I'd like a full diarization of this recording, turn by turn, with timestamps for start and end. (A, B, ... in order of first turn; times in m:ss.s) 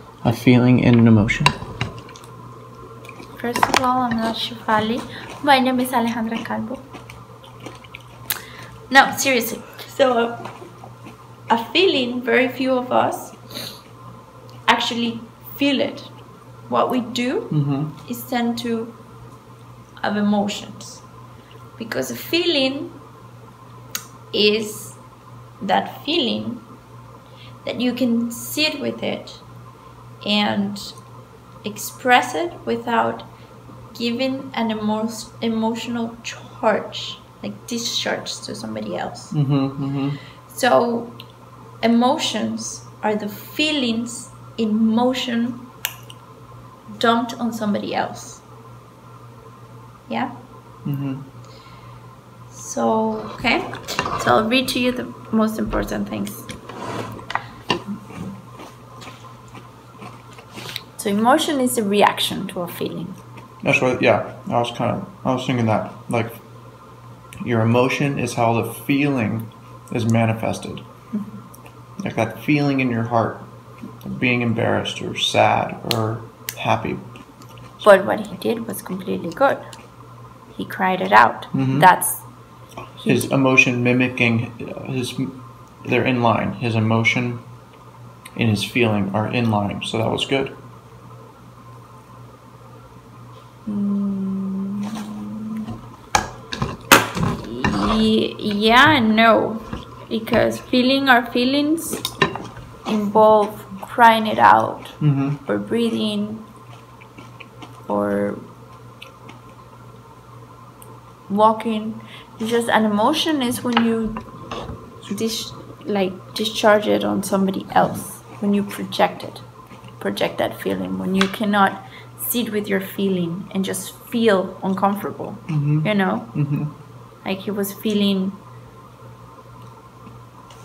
0:00.2-0:01.5 A
0:03.4-0:06.8 B
0:08.9-0:10.5 B
0:11.5-0:13.4 B
0:14.7-0:16.1 B
0:16.7-0:19.0 B
0:17.5-0:17.9 A
0:20.0-0:21.0 B
0:21.8-0:23.0 B
0:24.3-0:25.0 B
0:25.6-0:26.6 B
0:27.6-0:29.4 B
0:30.2-0:30.9 B
0:31.6-0:33.3 B
0:33.9-0:39.3 B
0:39.3-0:40.2 A
0:40.4-0:41.1 B
0:41.8-0:45.7 B
0:47.0-0:48.4 B
0:50.1-0:50.3 B
0:50.8-0:51.3 A
0:52.5-0:56.5 B
1:01.0-1:03.2 B
1:03.6-1:06.4 A
1:07.4-1:10.8 A
1:11.1-1:11.4 B
1:12.0-1:13.5 A
1:14.0-1:17.0 A
1:17.8-1:19.6 B
1:20.5-1:22.2 B
1:21.5-1:21.9 A
1:23.0-1:27.4 A
1:28.4-1:30.6 A
1:33.6-1:35.7 B
1:37.3-1:42.0 B
1:42.8-1:46.4 B
1:45.0-1:45.4 A
1:47.9-1:48.4 B
1:51.3-1:54.2 B
1:55.0-1:59.4 B
2:00.0-2:06.4 B
2:05.5-2:06.7 A
2:07.2-2:08.4 B